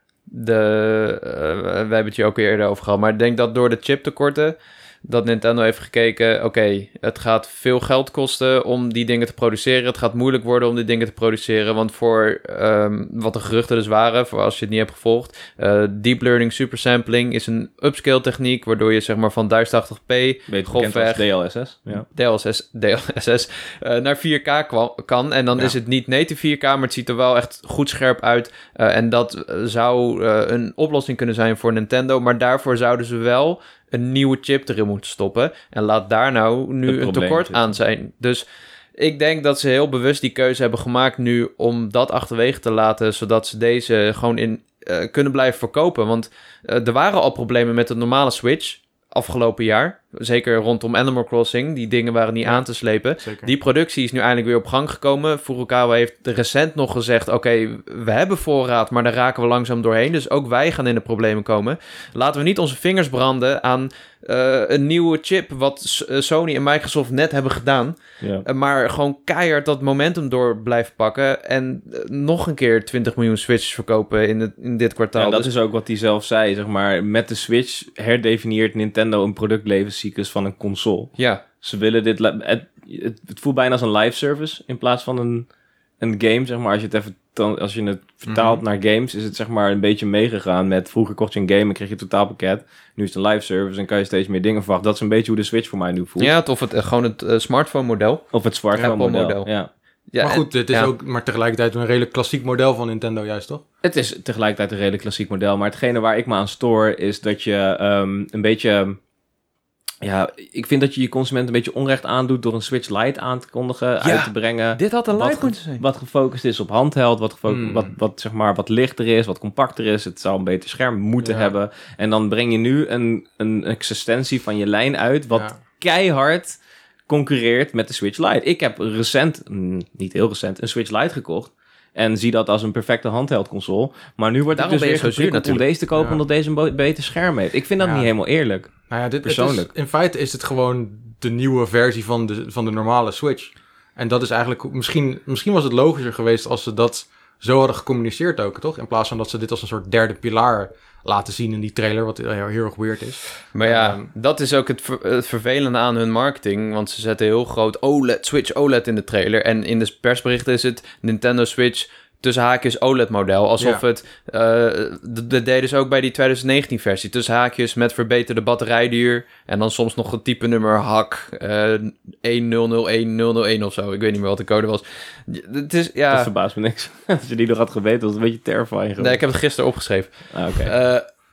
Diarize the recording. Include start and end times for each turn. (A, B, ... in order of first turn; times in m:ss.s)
0:00.3-0:21.3 A
0:20.5-0:22.1 B
0:22.0-0:38.4 A
0:36.9-0:37.8 B
0:39.0-1:15.5 A
0:53.2-0:53.5 C
1:15.2-1:25.5 B
1:21.2-1:21.4 A
1:26.0-1:36.3 B
1:28.3-1:28.6 C
1:36.2-1:38.3 A
1:38.3-1:39.7 B
1:38.8-1:39.5 A
1:40.1-1:40.9 A
1:40.2-1:43.6 C
1:43.8-1:49.0 B
1:50.0-2:06.6 B
1:54.0-1:55.8 A
1:57.5-1:57.9 C
2:01.2-2:01.6 C
2:07.1-2:19.7 B
2:14.5-2:15.6 A
2:16.0-2:16.2 C
2:17.8-2:18.1 C
2:18.9-2:34.1 C
2:33.5-2:56.3 A
2:56.1-2:59.2 B
2:59.0-3:01.1 A
3:00.3-3:00.7 B